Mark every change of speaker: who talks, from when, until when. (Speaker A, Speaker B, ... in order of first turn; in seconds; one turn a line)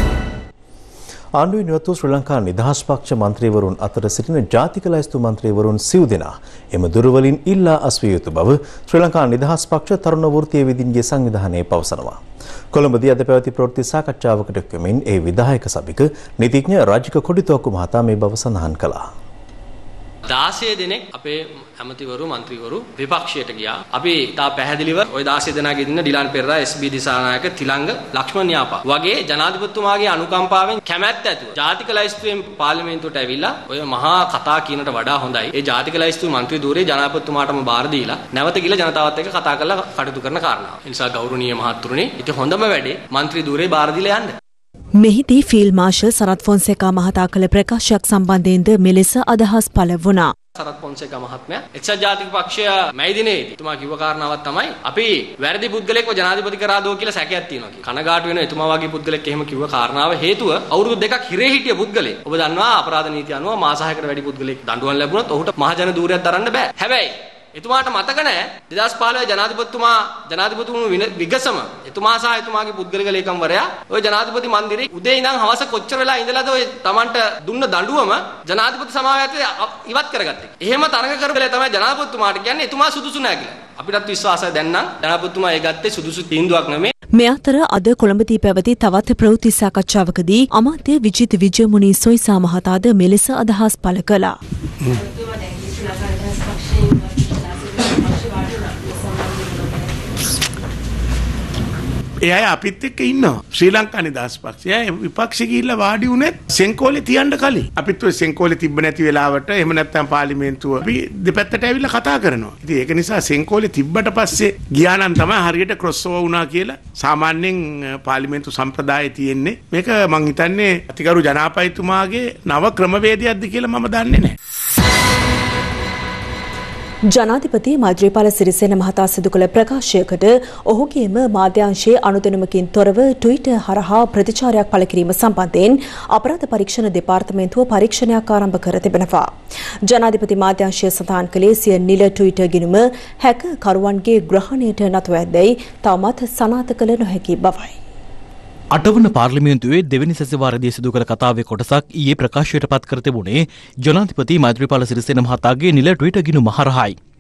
Speaker A: 1.4-12.2
Speaker A: 12.7-19.1
Speaker B: 20.3-44.3
Speaker C: 45.0-50.3
Speaker B: 50.6-86.9
Speaker C: 87.2-94.3
Speaker D: 102.3-124.3
Speaker C: 127.1-139.3
Speaker C: 139.9-147.8
Speaker E: 148.7-157.0